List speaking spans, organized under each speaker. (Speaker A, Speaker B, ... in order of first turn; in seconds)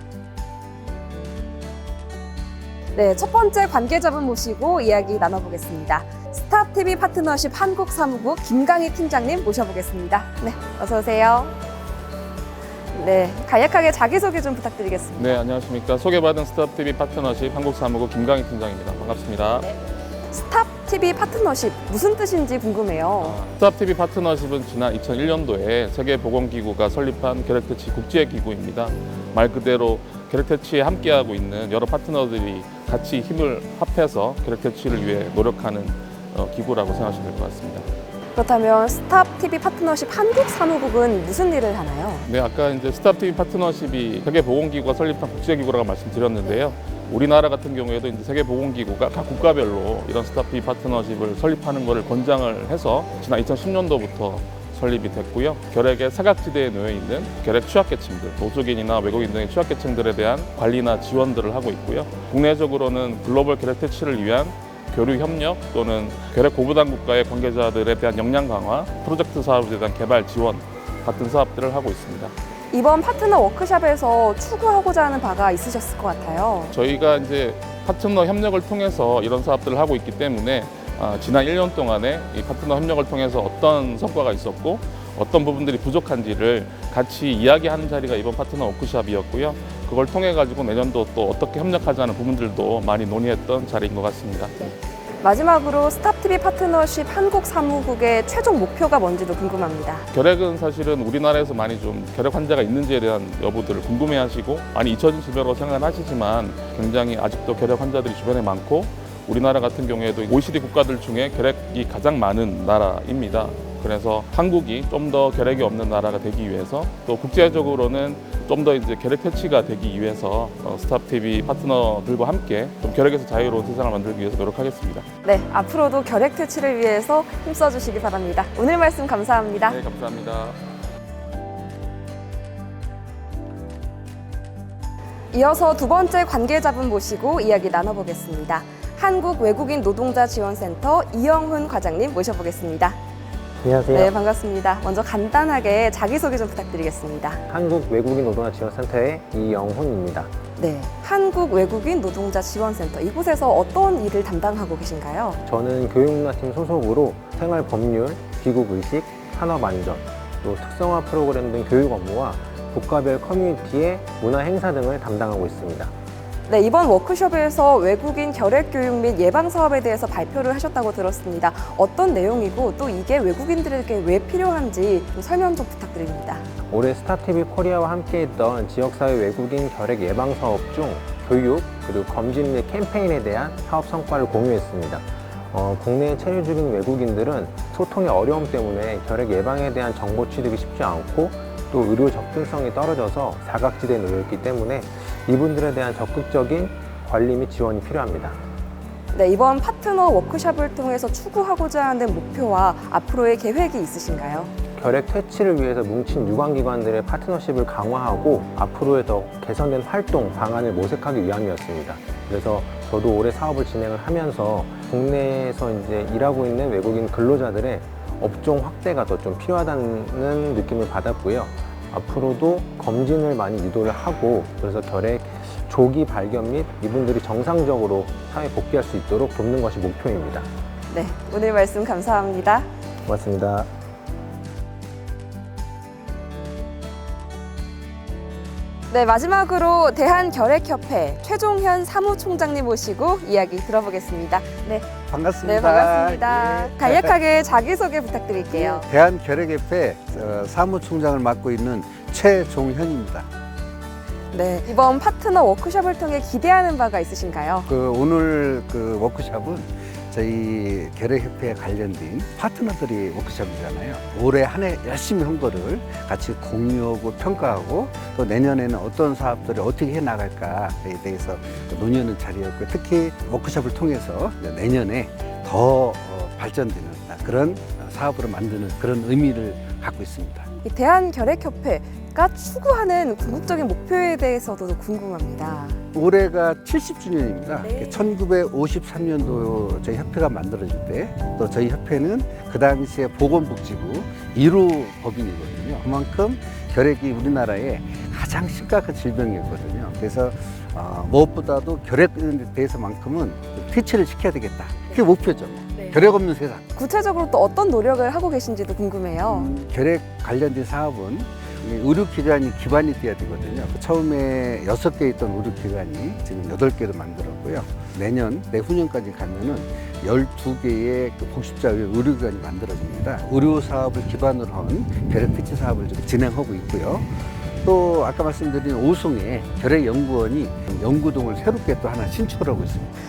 Speaker A: 3.0-11.6, 12.9-15.4, 20.3-23.4, 38.4-42.3, 72.7-76.7, 95.2-100.1, 125.2-129.8, 135.3-143.0, 143.9-147.4, 150.6-155.4, 166.5-176.4, 199.1-204.5, 230.9-232.7, 238.9-244.9, 245.4-248.9, 254.3-257.7, 280.6-285.8, 287.6-288.1, 306.8-309.5
Speaker B: 15.2-19.7, 23.2-37.9, 42.2-72.3, 76.7-94.7, 100.1-125.1, 129.7-130.6
Speaker C: 143.6-144.1, 147.5-150.3, 155.4-165.9, 176.7-198.4, 204.8-230.5, 233.1-233.7
Speaker D: 245.1-247.2, 248.5-253.3, 257.7-280.5, 285.9-306.6, 309.3-332.9